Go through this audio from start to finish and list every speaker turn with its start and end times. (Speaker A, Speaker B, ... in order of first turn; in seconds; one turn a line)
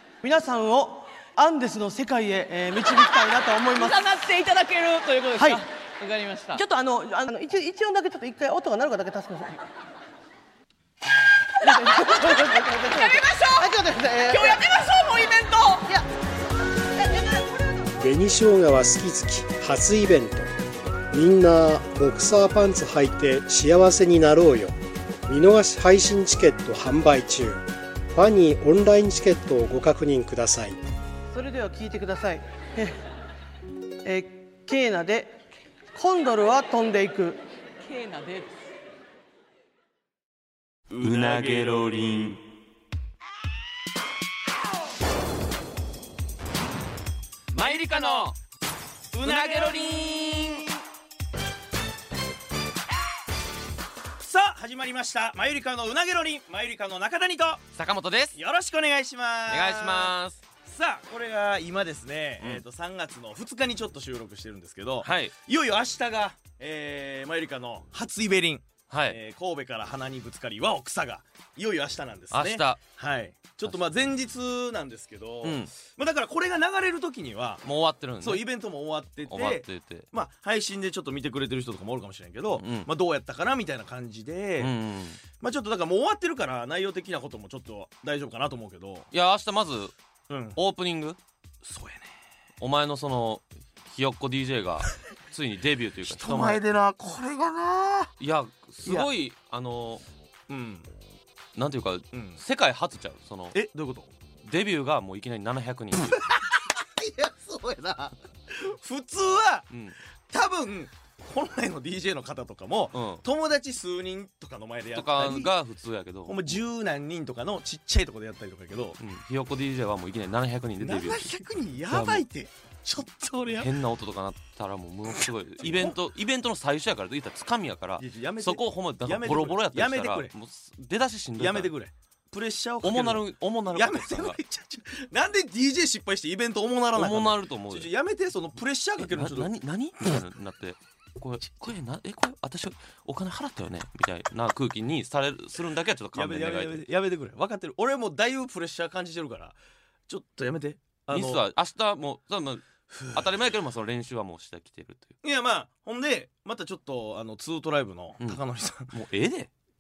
Speaker A: 0.2-4.2
Speaker B: 2.9-6.6
Speaker A: 5.4-5.6
Speaker A: 6.5-9.6
Speaker A: 11.6-14.7
Speaker B: 11.6-15.9
Speaker A: 17.0-17.8
Speaker C: 18.0-20.5
Speaker C: 21.1-24.8
Speaker C: 25.3-30.8
Speaker A: 31.3-33.0
Speaker A: 34.0-35.4
Speaker A: 35.9-37.4
Speaker B: 37.8-38.6
Speaker D: 40.9-41.9
Speaker E: 41.0-42.4
Speaker E: 47.5-48.4
Speaker D: 47.6-48.3
Speaker D: 49.1-50.7
Speaker E: 49.2-50.7
Speaker D: 54.2-57.6
Speaker E: 57.8-58.4
Speaker D: 58.3-77.6
Speaker E: 59.5-60.4
Speaker E: 65.0-65.3
Speaker E: 68.9-69.2
Speaker E: 72.3-72.8
Speaker E: 75.4-75.7
Speaker E: 77.6-78.5
Speaker D: 78.2-84.7
Speaker E: 79.3-80.1
Speaker E: 82.5-82.9
Speaker E: 84.6-85.2
Speaker D: 85.4-89.1
Speaker E: 89.1-89.9
Speaker D: 90.3-90.6
Speaker E: 90.5-91.2
Speaker D: 91.6-92.1
Speaker E: 92.6-96.6
Speaker D: 96.0-98.1
Speaker E: 98.2-100.0
Speaker D: 100.5-100.9
Speaker E: 101.5-103.6
Speaker D: 102.1-102.4
Speaker D: 103.5-104.1
Speaker E: 104.4-106.2
Speaker D: 106.0-109.6
Speaker E: 109.7-110.0
Speaker D: 110.3-115.5
Speaker E: 112.9-113.2
Speaker E: 114.9-116.6
Speaker D: 116.3-119.0
Speaker E: 119.0-122.2
Speaker D: 120.8-123.7
Speaker E: 123.5-131.7
Speaker D: 125.1-126.0
Speaker D: 128.0-130.3
Speaker D: 131.4-139.5
Speaker E: 132.8-134.4
Speaker E: 136.9-137.9
Speaker E: 139.0-146.8
Speaker D: 146.1-149.6
Speaker D: 150.1-151.4
Speaker E: 151.1-155.1
Speaker D: 152.9-153.3
Speaker D: 155.2-158.9
Speaker E: 158.2-159.5